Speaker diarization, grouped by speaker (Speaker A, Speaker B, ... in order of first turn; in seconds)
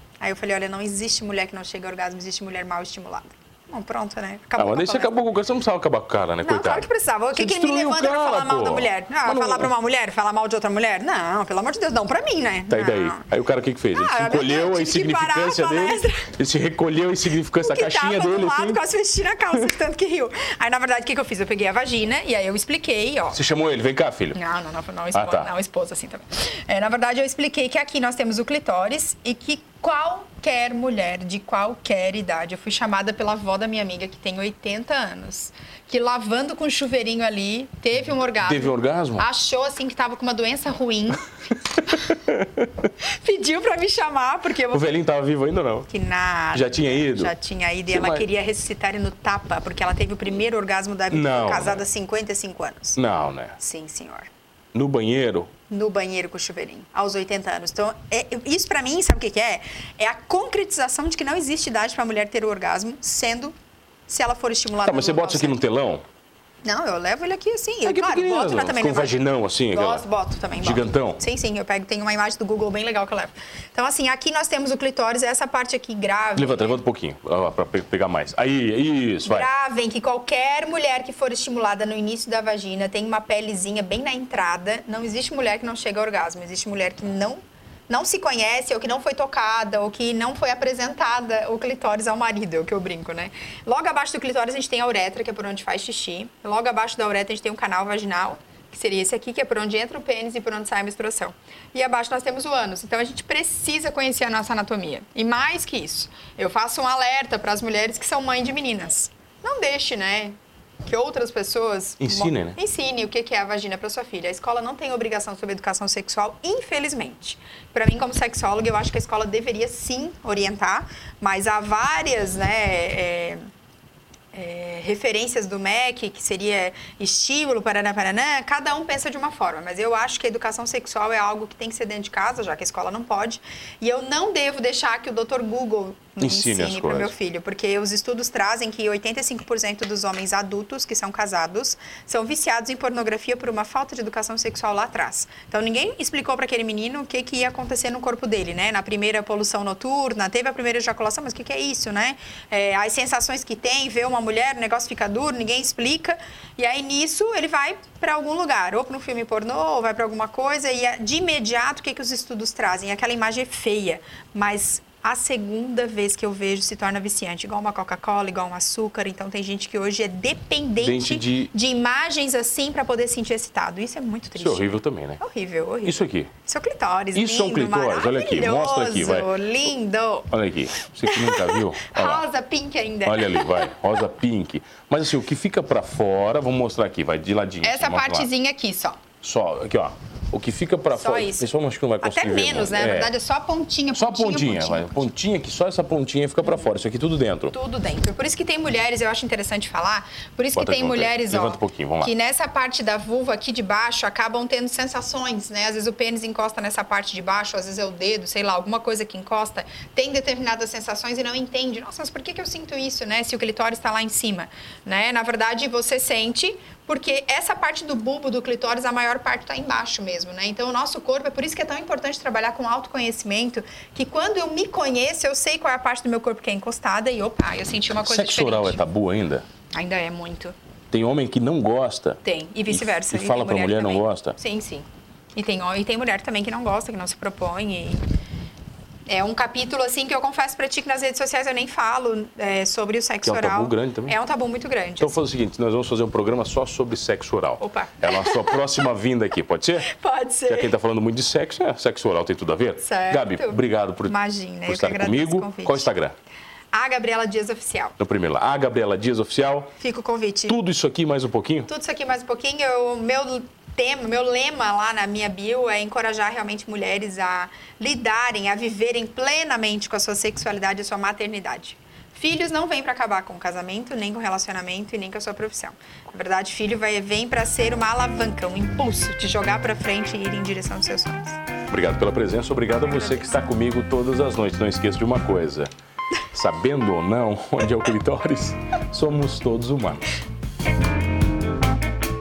Speaker A: 0.2-5.1, 6.4-13.2, 13.9-16.3, 17.6-23.4, 24.4-41.3, 43.0-44.9, 45.9-53.0, 53.6-54.3, 55.7-63.5, 64.1-65.6, 66.6-69.2, 69.7-76.8, 79.2-123.4, 124.3-174.7, 175.2-180.3, 181.1-183.7, 187.6-189.0, 190.9-191.5, 192.0-195.1, 197.5-228.8, 229.7-230.5, 232.2-238.0, 239.1-245.2, 247.6-248.8, 249.9-250.7, 252.8-255.9, 256.7-258.0, 259.8-260.6, 261.7-281.4, 282.8-283.4
Speaker B: 4.6-9.7, 12.7-18.8, 23.3-24.4, 25.1-25.5, 38.5-39.3, 41.9-42.9, 44.7-45.9, 46.5-47.3, 47.9-48.2, 51.1-51.8, 53.0-53.6, 54.7-55.5, 64.8-66.0, 67.8-70.0, 70.6-71.2, 76.4-79.5, 112.0-112.6, 136.2-137.1, 170.8-171.5, 174.4-175.2, 175.8-176.3, 177.2-179.3, 180.3-182.2, 183.1-188.3, 189.2-193.1, 193.9-197.5, 200.6-202.1, 228.0-229.5, 230.9-234.4, 243.2-244.2, 245.0-249.9, 250.5-254.2, 254.7-256.1, 258.0-259.7, 260.5-261.7, 281.7-285.7, 286.3-290.1